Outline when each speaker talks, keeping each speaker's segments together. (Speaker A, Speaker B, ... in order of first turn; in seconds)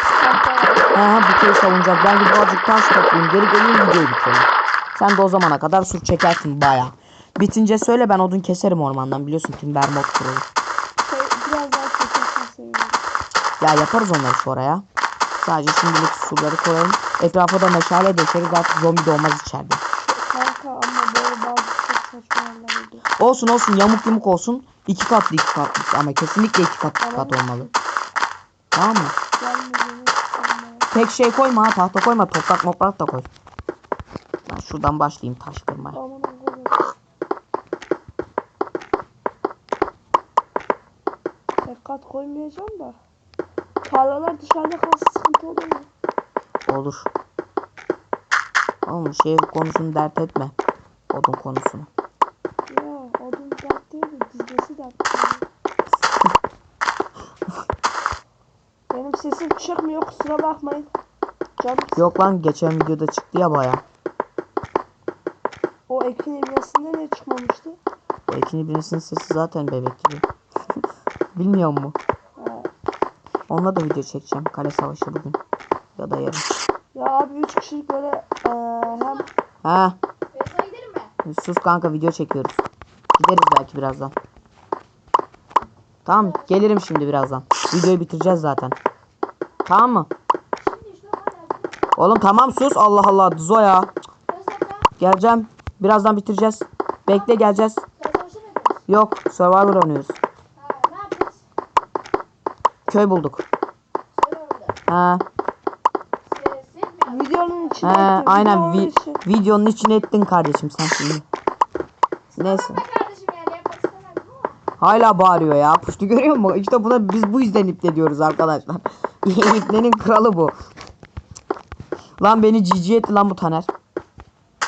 Speaker A: 0.2-0.9, 11.0-13.0, 19.9-23.0, 27.0-27.7, 29.4-30.9, 35.9-36.8, 41.6-43.0, 43.8-45.9, 52.7-55.4, 58.9-60.9, 61.6-62.1, 65.9-67.8, 72.4-72.7, 76.9-79.2, 107.1-109.2
Speaker B: 0.9-10.4, 13.6-14.8, 15.4-19.8, 23.2-27.7, 28.7-29.1, 30.9-33.3, 34.5-36.0, 46.7-47.1, 48.8-50.5, 51.1-51.9, 62.0-63.8, 68.3-70.2, 71.3-72.0, 73.5-75.4, 76.0-76.5, 79.6-80.0, 81.2-82.6, 83.2-84.1, 86.0-88.8, 89.7-90.1, 92.0-93.9, 95.0-97.8, 98.9-100.2, 102.9-103.4, 104.9-105.2, 107.8-111.2, 112.4-112.8, 114.8-120.5, 122.2-123.7
Speaker C: 78.9-79.3, 80.3-81.1, 86.1-86.7, 90.6-92.0, 94.3-94.9, 97.1-98.8, 100.5-101.4, 104.1-104.8, 106.2-107.8, 112.3-114.6